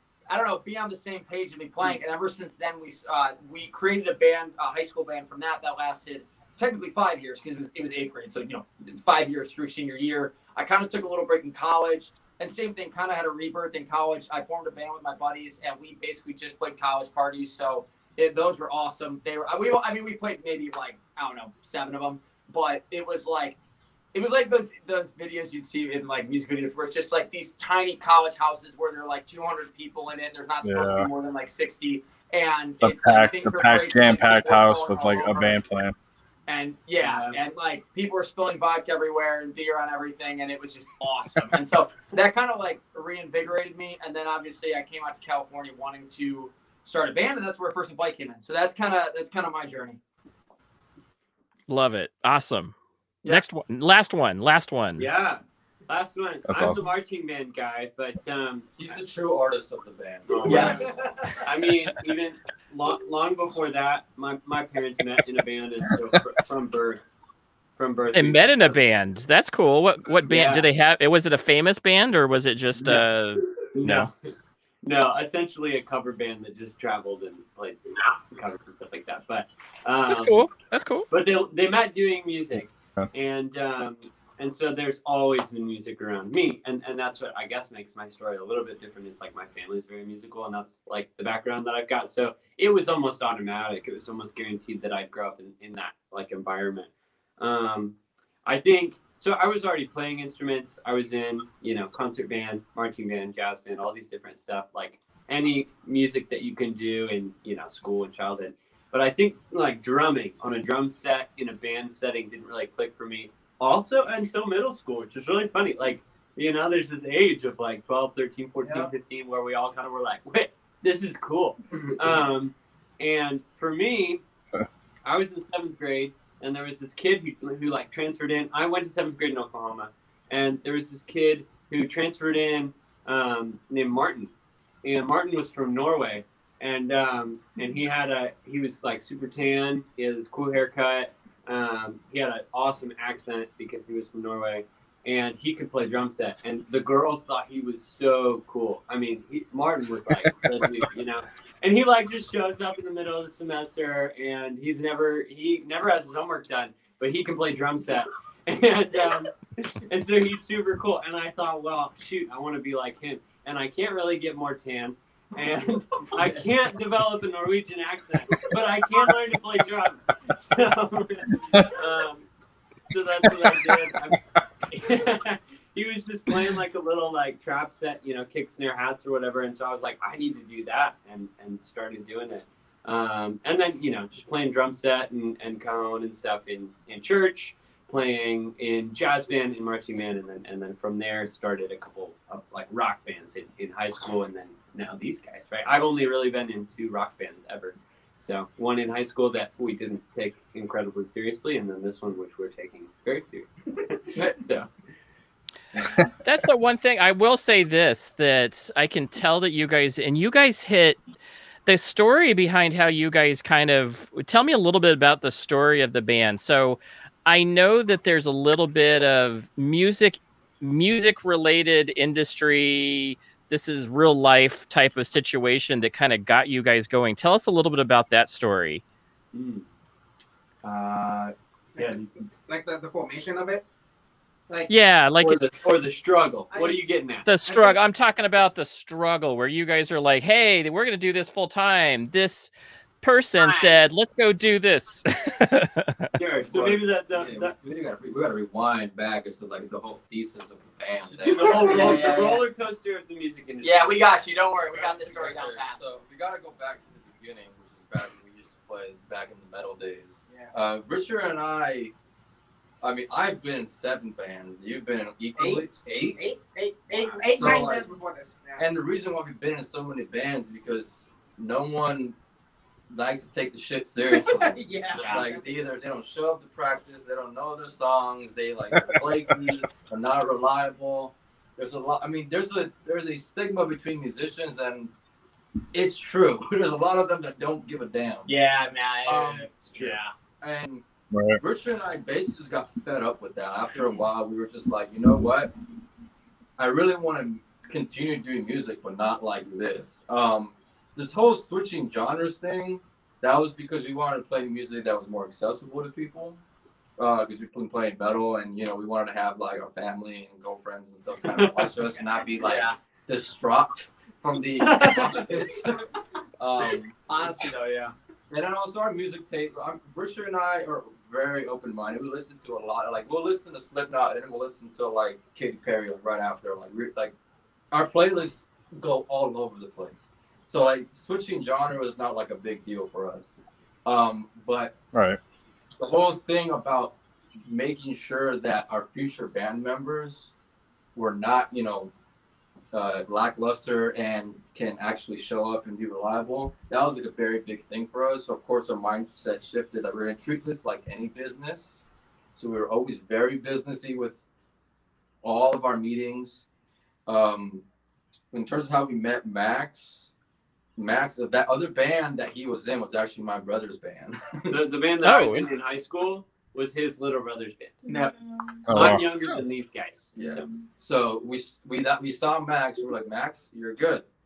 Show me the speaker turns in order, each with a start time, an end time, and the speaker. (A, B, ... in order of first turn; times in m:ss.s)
0:00.3-0:23.6 A
0:24.1-0:35.6 A
0:30.6-0:31.1 B
0:32.8-0:36.0 B
0:36.5-0:50.0 A
0:37.0-0:37.4 C
0:51.7-0:55.1 D
0:55.0-0:59.0 C
0:56.5-0:56.9 B
0:58.8-1:01.0 E
1:00.3-1:00.9 C
1:00.4-1:00.9 A
1:00.4-1:01.4 F
1:01.4-1:07.0 C
1:07.8-1:08.8 C
1:08.1-1:14.1 D
1:10.3-1:10.6 C
1:12.8-1:13.0 C
1:13.6-1:14.1 C
1:14.8-1:20.5 C
1:20.1-1:21.1 D
1:21.1-2:04.2 C
2:05.0-2:52.2 C
2:52.9-2:54.2 C
2:54.7-3:24.6 C
3:24.1-3:24.7 A
3:26.2-3:31.0 D
3:31.7-3:48.8 D
3:49.3-3:49.6 C
3:50.6-3:51.3 A
3:51.8-3:53.6 F
3:54.7-3:55.5 D
3:55.2-3:57.3 C
3:56.5-3:56.8 F
3:57.3-4:02.5 D
3:57.5-3:57.8 F
4:03.0-4:06.0 D
4:03.4-4:03.8 C
4:06.2-4:07.6 C
4:06.2-4:12.4 E
4:11.0-4:14.0 C
4:11.4-4:12.0 F
4:11.9-4:12.2 A
4:13.6-4:15.8 A
4:14.6-4:21.9 E
4:20.3-4:20.5 F
4:22.8-4:26.2 E
4:25.4-4:28.6 F
4:26.9-4:27.3 C
4:27.2-4:27.9 E
4:28.6-4:32.2 E
4:32.9-4:44.9 E
4:34.1-4:35.7 F
4:34.9-4:35.2 C
4:35.0-4:35.2 A
4:38.8-4:39.0 B
4:45.7-4:48.3 E
4:48.3-4:50.1 A
4:49.0-4:50.8 E
4:51.1-4:51.4 B
4:51.4-4:55.5 E
4:56.6-5:06.4 E
5:07.0-5:15.8 E
5:11.3-5:11.7 C
5:12.4-5:12.8 A
5:14.6-5:15.4 C
5:14.8-5:15.2 A
5:16.4-5:17.5 E
5:17.1-5:18.0 A
5:18.3-5:27.2 E
5:27.7-5:33.3 E
5:33.8-5:34.8 E
5:34.9-5:35.2 B
5:35.8-5:40.3 E
5:41.0-5:41.9 E
5:42.7-5:51.8 E
5:52.4-5:54.2 E
5:55.2-5:56.4 E
5:57.1-5:57.6 E
5:58.3-6:00.1 E
6:00.8-6:04.6 E
6:04.5-6:07.8 C
6:05.0-6:05.5 D
6:07.9-6:08.2 A
6:08.7-6:09.4 B
6:08.7-6:10.5 C
6:10.1-6:14.0 E